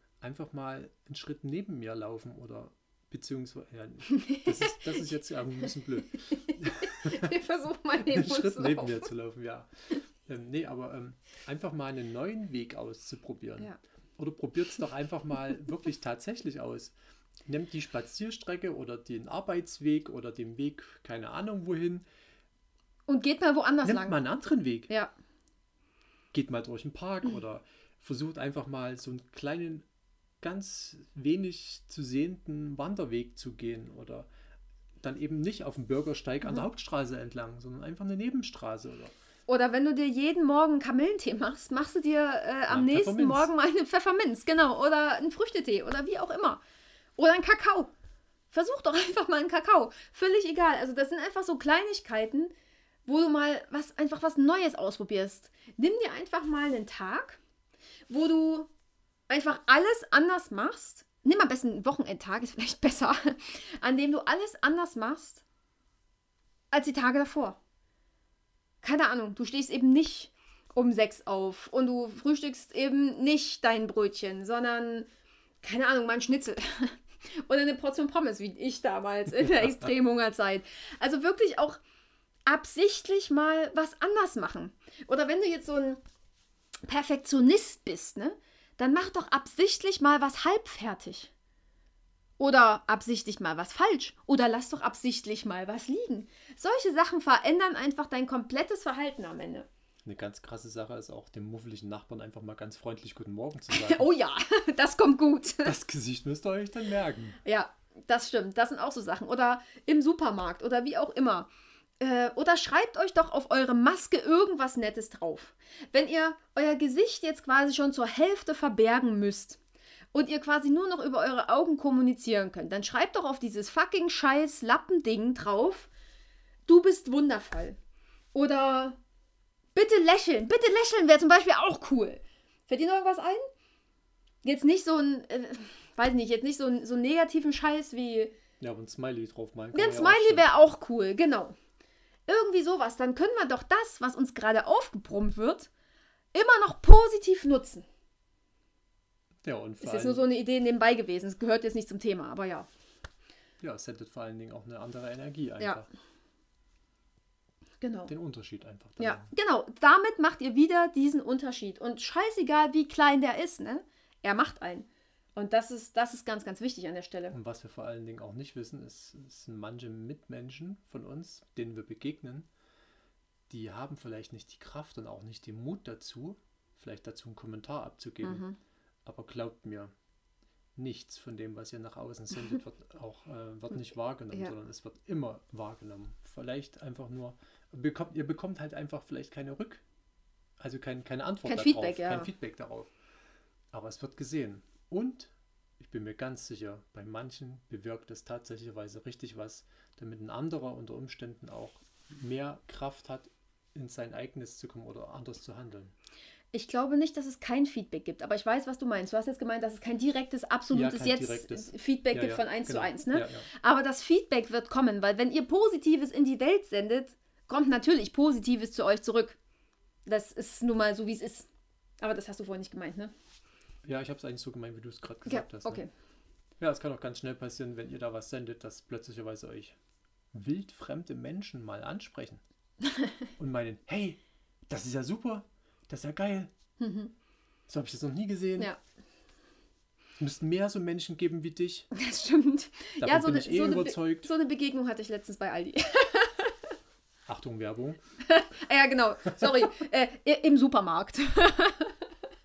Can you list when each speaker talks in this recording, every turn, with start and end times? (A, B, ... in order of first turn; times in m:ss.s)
0:00.2-0:07.3 A
0:04.1-0:05.1 B
0:06.3-0:09.1 B
0:08.0-0:22.0 A
0:23.1-0:24.2 B
0:23.8-0:24.9 A
0:26.3-0:29.8 A
0:30.4-0:34.3 A
0:35.0-0:39.2 A
0:39.5-0:46.6 B
0:42.7-0:43.5 A
0:47.2-0:47.9 B
0:48.5-0:52.5 B
0:53.1-0:57.4 B
0:58.1-0:58.7 B
0:59.3-1:05.4 B
1:06.7-1:07.6 B
1:08.8-1:15.1 B
1:15.6-1:21.8 B
1:22.5-1:26.0 B
1:26.9-1:31.3 B
1:32.4-1:39.7 B
1:40.0-1:44.1 A
1:43.7-1:45.7 B
1:45.6-1:47.4 A
1:47.4-1:59.6 B
2:00.1-2:05.9 B
2:06.7-2:07.8 B
2:08.3-2:09.0 B
2:09.8-2:13.5 B
2:14.4-2:18.3 B
2:18.6-2:20.5 A
2:19.7-2:21.6 B
2:22.3-2:25.7 B
2:26.3-2:27.9 B
2:29.4-2:30.2 A
2:29.8-2:32.7 B
2:33.6-2:35.9 A
2:37.8-2:38.1 B
2:38.1-2:39.3 A
2:39.0-2:47.4 B
2:47.3-2:52.5 A
2:53.5-2:58.5 A
2:58.2-2:58.6 B
2:59.0-2:59.9 A
3:00.8-3:09.8 A
3:10.6-3:12.9 A
3:11.4-3:12.3 B
3:13.7-3:25.9 A
3:26.5-3:39.4 B
3:30.7-3:33.5 A
3:40.1-3:41.5 B
3:42.0-3:43.1 B
3:43.8-3:45.8 A
3:45.3-3:45.9 B
3:46.6-3:49.8 A
3:50.3-3:52.4 A
3:52.8-3:53.3 B
3:53.4-3:56.5 A
3:56.8-3:57.1 B
3:57.7-3:58.7 A
4:00.2-4:01.9 A
4:01.9-4:06.6 B
4:03.0-4:04.3 A
4:07.3-4:08.0 A
4:08.2-4:12.0 B